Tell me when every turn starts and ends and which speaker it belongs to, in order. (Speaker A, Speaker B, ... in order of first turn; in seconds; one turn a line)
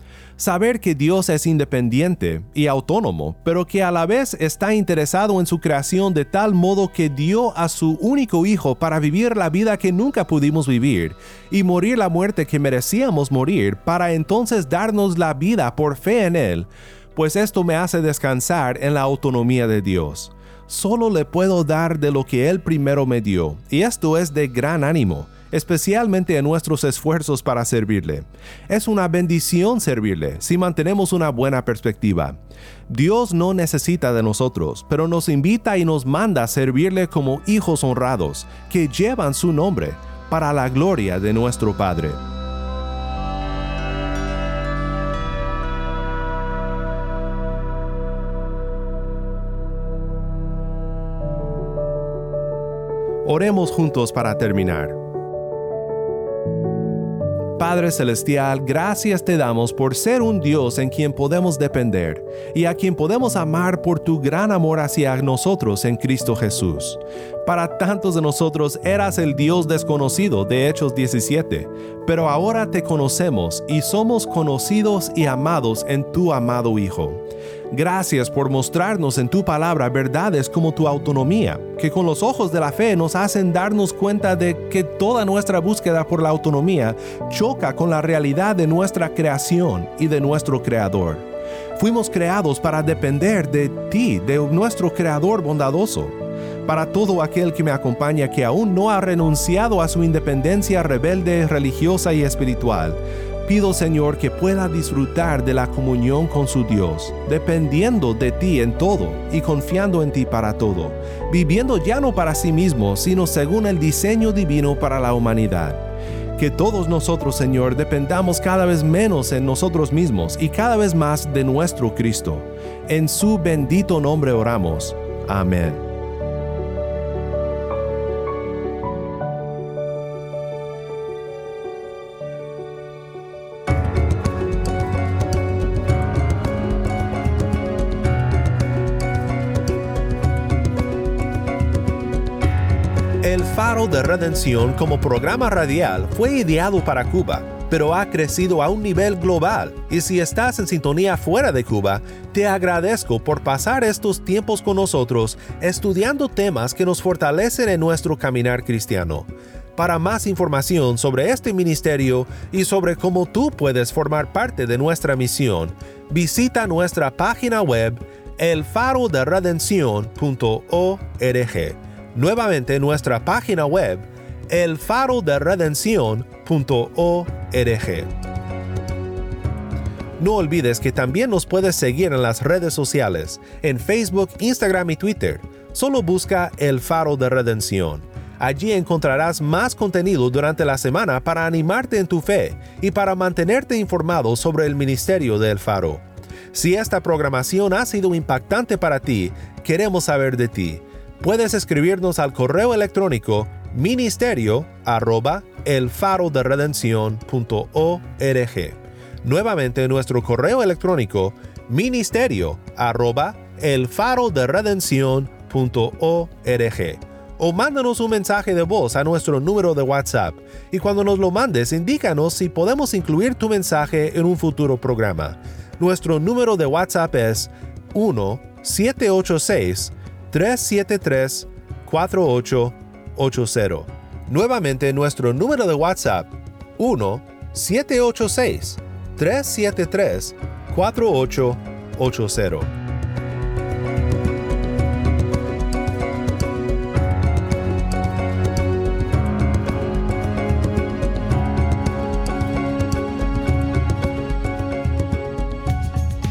Speaker A: 0.4-42.2
Speaker A: 53.2-55.0
Speaker A: 57.6-125.8
Speaker A: 143.2-178.1
Speaker A: 180.2-242.7